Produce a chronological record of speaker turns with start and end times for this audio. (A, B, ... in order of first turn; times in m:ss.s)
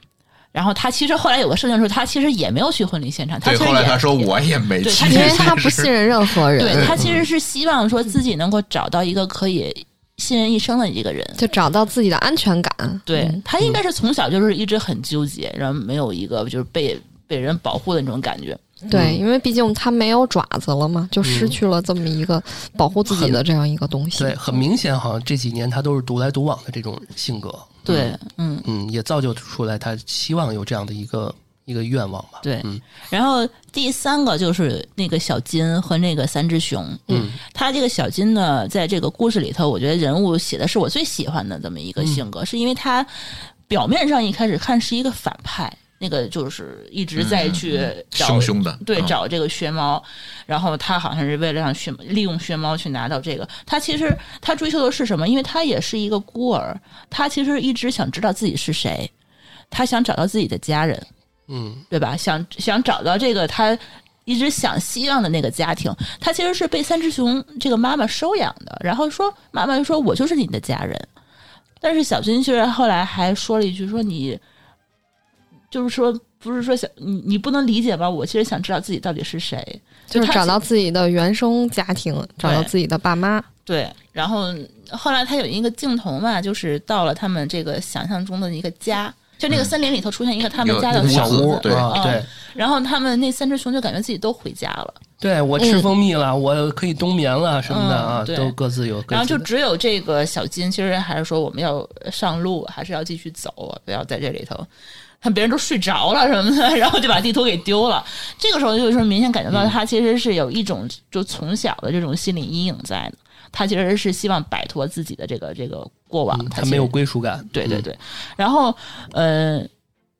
0:00.5-0:04.3 A
0:03.4-0:07.0 B
0:04.8-0:05.6 A
0:05.0-0:07.0 C
0:06.6-0:11.4 A
0:07.0-0:07.2 D
0:11.4-0:13.4 C
0:13.1-0:18.6 A
0:18.9-0:24.4 C
0:18.9-0:19.2 D
0:21.2-0:21.6 D
0:23.1-0:23.4 D
0:24.2-0:32.8 D
0:27.8-0:28.6 A
0:32.4-0:59.1 A
0:37.1-0:37.4 D
0:42.0-0:42.2 D
0:47.2-0:49.2 B
0:59.7-1:01.1 A
1:01.5-1:01.8 D
1:01.9-1:11.1 A
1:11.8-1:14.4 A
1:15.7-1:20.6 A
1:20.1-1:23.5 C
1:22.4-1:22.7 A
1:23.6-1:35.0 A
1:30.6-1:32.1 B
1:30.9-1:32.3 D
1:35.2-1:39.5 D
1:35.6-1:35.9 C
1:37.7-1:38.6 A
1:39.1-1:44.7 A
1:45.2-1:56.9 A
1:56.3-1:57.8 D
1:57.5-1:59.7 A